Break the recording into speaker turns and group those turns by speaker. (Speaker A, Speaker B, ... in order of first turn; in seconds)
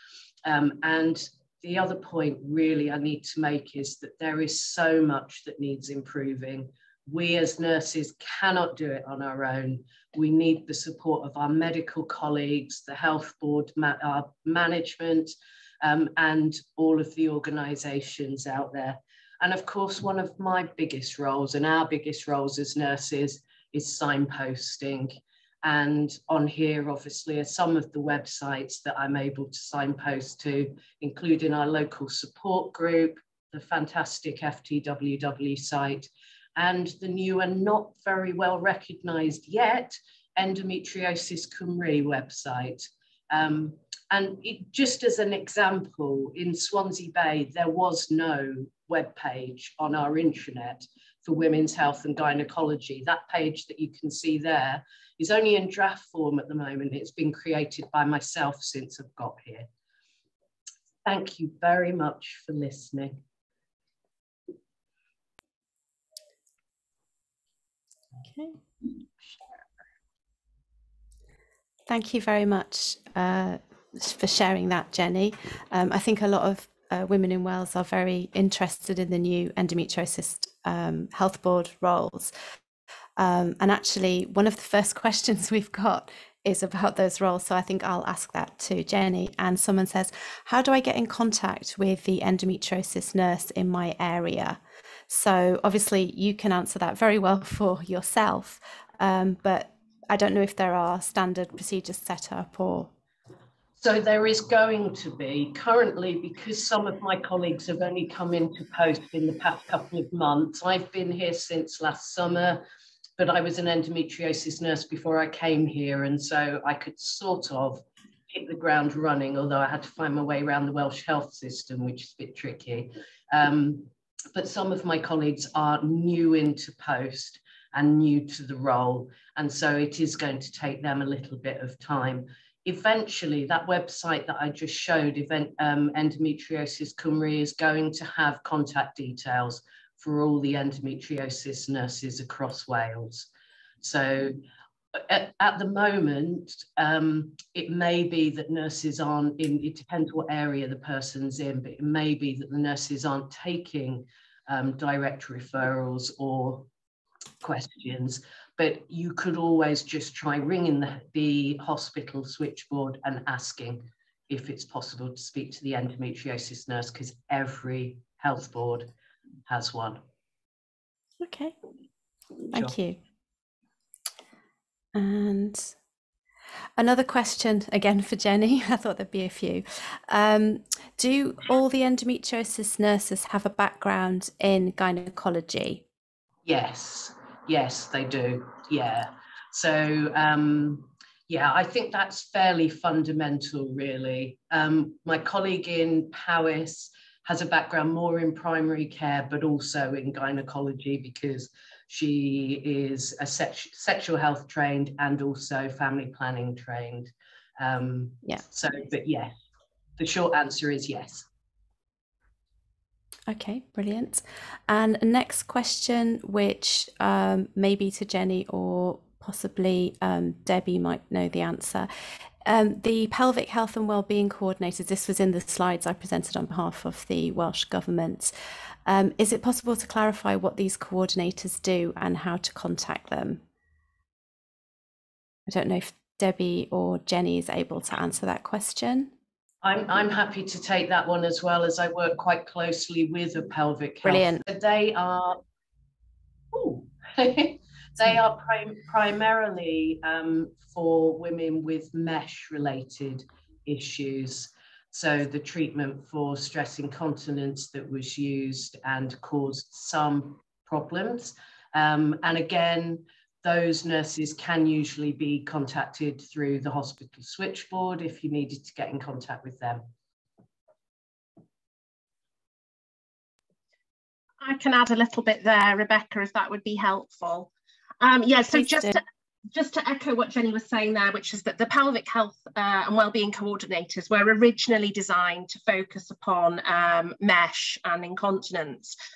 Speaker A: 0.5-59.7, 61.0-63.2, 103.8-112.6, 113.2-143.3, 143.8-144.4, 144.9-156.7, 157.4-168.9, 169.5-170.0, 186.4-209.3, 210.0-211.3, 239.6-245.4, 246.5-269.9
Speaker B: 68.3-68.6, 71.9-82.3, 83.2-102.9, 171.2-171.6, 172.5-173.0, 174.9-175.8, 176.8-185.8, 213.3-221.9, 222.4-228.3, 228.9-233.4, 235.5-239.1, 244.0-244.4, 278.5-279.0
Speaker C: 274.4-279.0, 279.5-288.9